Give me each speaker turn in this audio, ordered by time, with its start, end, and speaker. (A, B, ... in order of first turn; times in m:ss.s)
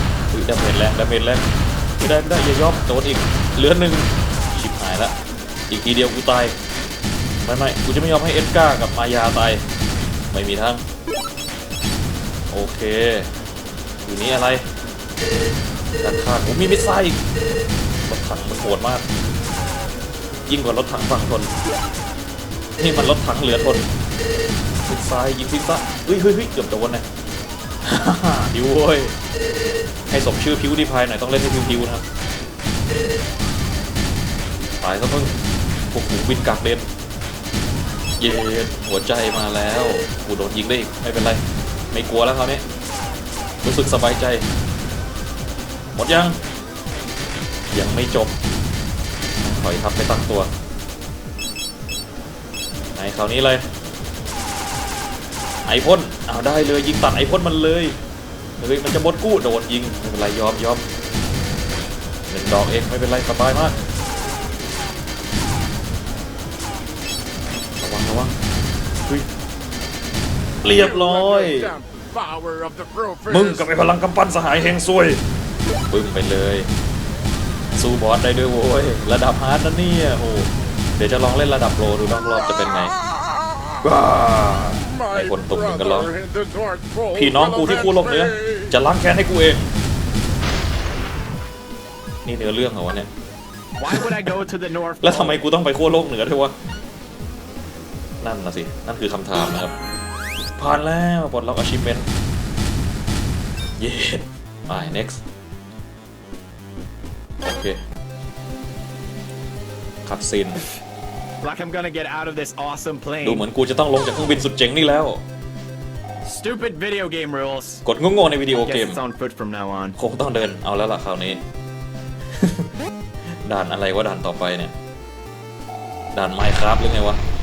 0:00.3-0:05.1 A
0:05.7-0:06.6 A
0:07.4-0:09.6 A
0:10.3-0:10.8 A
0:12.5-0:13.3 A
0:14.0-0:14.6 A
0:16.0-0:17.2 A
0:18.0-0:19.0 A
0:20.5-0:21.5 A
0:22.8-0:23.9 A
0:24.8-0:27.0 A
0:27.8-0:29.1 A
0:30.1-0:32.0 A
0:34.8-0:35.4 A
0:35.9-0:36.8 A
0:38.2-0:41.4 A
0:41.9-0:42.6 A
0:43.6-0:44.4 A
0:45.9-0:46.4 A
0:47.7-0:48.4 A
0:49.4-0:50.5 A
0:53.0-0:53.6 A
0:55.6-0:57.9 A
0:58.6-1:00.8 A
1:02.3-1:03.7 A
1:07.8-1:08.4 A
1:10.6-1:11.7 A
1:10.6-1:13.7 B
1:13.3-1:15.2 A
1:15.9-1:16.7 A
1:17.7-1:22.9 A
1:22.3-1:23.9 B
1:23.8-1:26.1 A
1:24.8-1:28.7 B
1:27.1-1:29.7 A
1:32.2-1:33.1 A
1:33.8-1:35.4 C
1:35.0-1:36.5 A
1:38.2-1:39.7 A
1:40.6-1:42.1 A
1:43.8-1:45.2 A
1:47.4-1:47.8 A
1:50.0-1:50.6 A
1:51.4-1:53.4 C
1:53.2-1:55.2 A
1:56.2-1:57.8 C
1:57.8-1:59.0 A
1:58.6-1:59.9 C
2:00.0-2:01.4 A
2:02.4-2:02.7 A
2:03.4-2:04.7 A
2:06.1-2:07.2 A